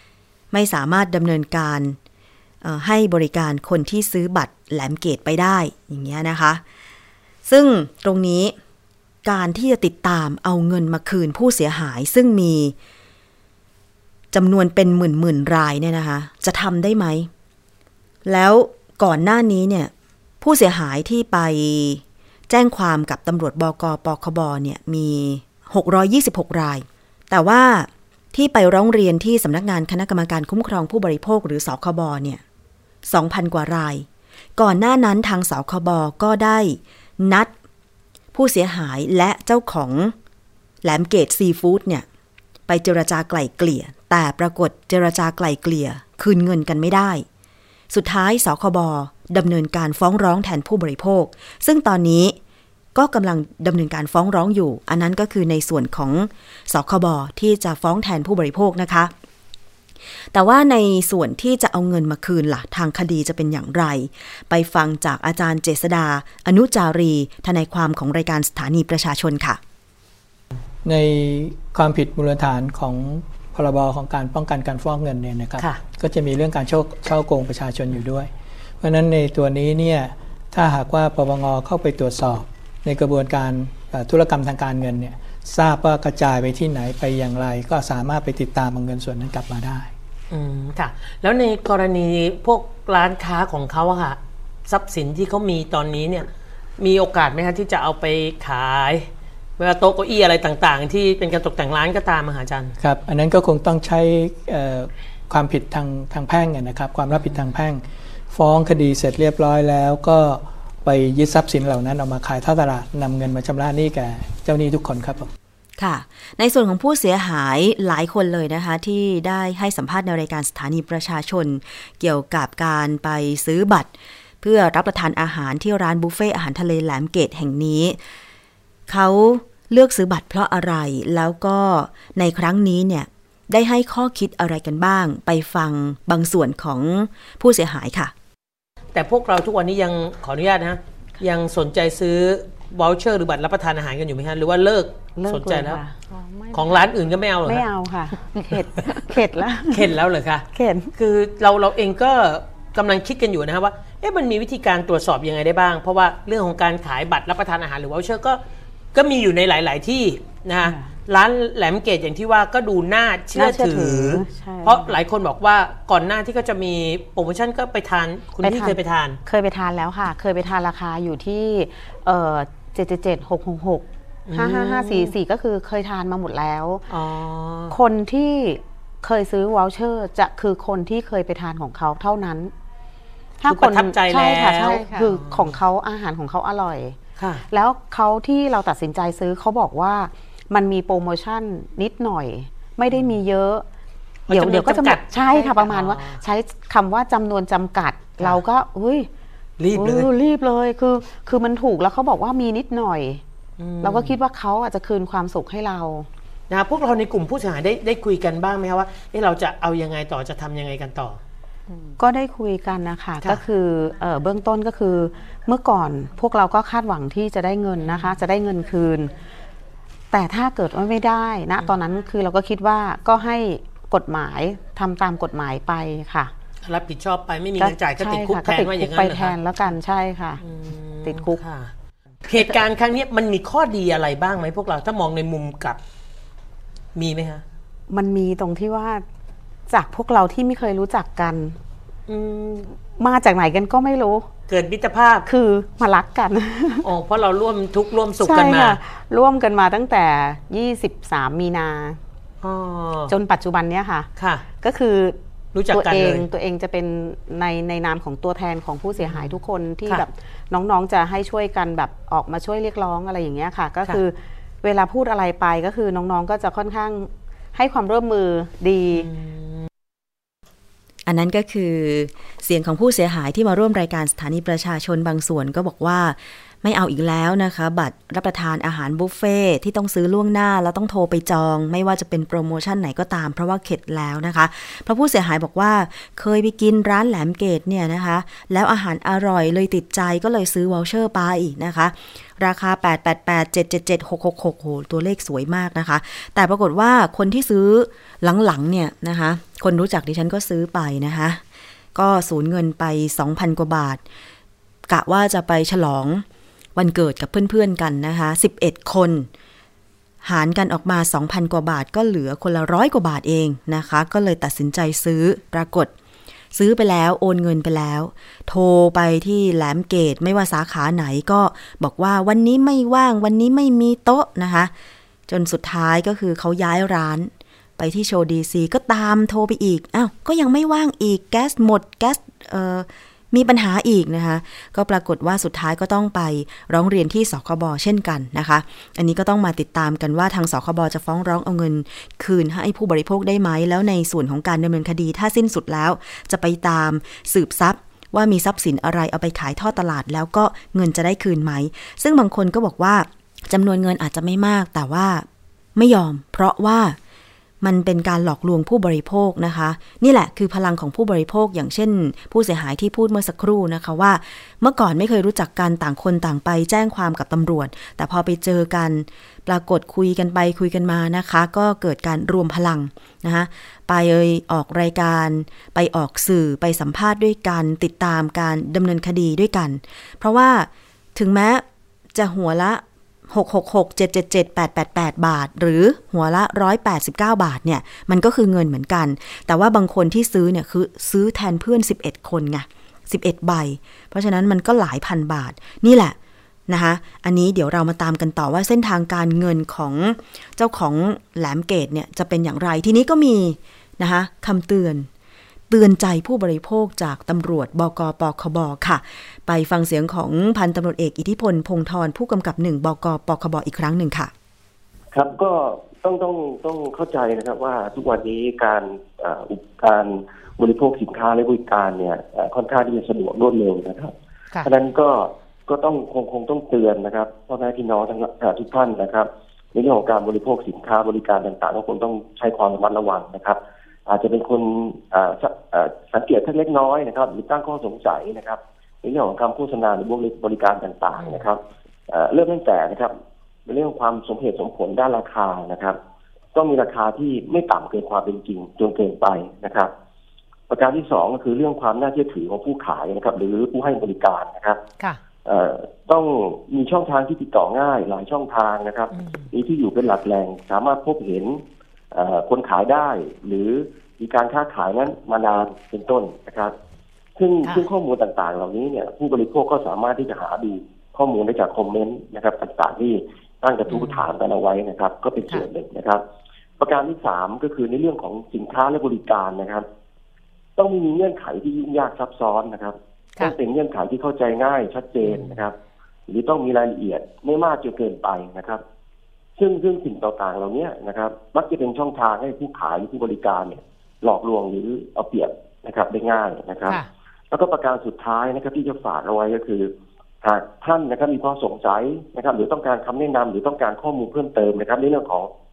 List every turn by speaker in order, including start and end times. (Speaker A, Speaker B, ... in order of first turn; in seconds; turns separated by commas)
Speaker A: 0.5-2.0, Speaker A: 2.6-6.6, Speaker A: 7.5-8.6, Speaker A: 9.2-12.8, Speaker A: 14.3-17.3, Speaker A: 18.2-32.4, Speaker A: 33.1-34.1, Speaker A: 34.6-37.5, Speaker A: 38.3-40.1, Speaker A: 40.8-42.1, Speaker A: 42.7-47.2, Speaker A: 47.9-52.4, Speaker A: 53.0-59.1, Speaker A: 60.3-69.6, Speaker B: 70.8-89.9, Speaker C: 90.3-102.8, Speaker B: 102.8-115.3, Speaker A: 115.8-128.0, Speaker A: 128.9-138.1, Speaker C: 138.9-145.8, Speaker D: 145.2-146.9, Speaker C: 146.5-147.7, Speaker D: 147.4-149.9, Speaker C: 149.7-158.4, Speaker D: 150.5-150.9, Speaker C: 158.9-169.2, Speaker D: 160.6-160.9, Speaker D: 163.3-164.9, Speaker D: 168.4-176.8, Speaker C: 174.3-175.1, Speaker C: 176.9-177.7, Speaker D: 177.7-182.5, Speaker D: 183.4-187.0, Speaker C: 183.5-185.6, Speaker C: 187.2-187.4, Speaker D: 187.5-193.7, Speaker C: 194.3-196.2, Speaker D: 194.3-199.1, Speaker C: 199.6-200.1, Speaker D: 199.7-203.2, Speaker C: 203.6-204.2, Speaker D: 203.8-206.1, Speaker C: 206.5-211.2, Speaker D: 212.0-219.1, Speaker C: 217.8-218.2, Speaker D: 220.1-226.3, Speaker C: 226.6-229.8, Speaker D: 227.6-230.4, Speaker C: 230.4-231.7, Speaker D: 231.0-231.4, Speaker C: 232.3-235.8, Speaker C: 236.9-237.4, Speaker D: 237.9-239.1, Speaker D: 239.7-241.6, Speaker C: 242.1-242.7, Speaker D: 243.0-244.3, Speaker C: 244.5-245.3, Speaker D: 245.2-246.9, Speaker C: 246.8-248.8, Speaker D: 248.2-252.0, Speaker C: 252.4-253.1, Speaker D: 253.1-254.1, Speaker C: 254.2-254.4, Speaker D: 254.6-269.1, Speaker C: 255.5-256.2, Speaker C: 259.0-259.4, Speaker C: 269.0-269.4, Speaker A: 271.1-301.4, Speaker A: 301.9-304.0, Speaker A: 304.9-306.2, Speaker A: 306.8-309.3, Speaker A: 310.2-315.9, Speaker A: 316.5-324.7, Speaker A: 325.3-357.0, Speaker A: 357.6-396.2, Speaker A: 396.7-405.1, Speaker A: 405.7-414.3, Speaker E: 415.1-424.1, Speaker E: 424.6-443.1, Speaker C: 441.2-441.4, Speaker E: 443.7-446.0, Speaker E: 446.6-449.9, Speaker E: 450.7-454.8, Speaker E: 455.5-461.6, Speaker C: 459.1-459.5, Speaker E: 462.1-466.7, Speaker E: 467.4-476.2, Speaker C: 473.9-474.3, Speaker E: 476.8-479.9, Speaker E: 480.8-485.8, Speaker C: 485.2-485.6, Speaker E: 486.3-488.8, Speaker E: 489.6-499.9, Speaker E: 500.4-505.5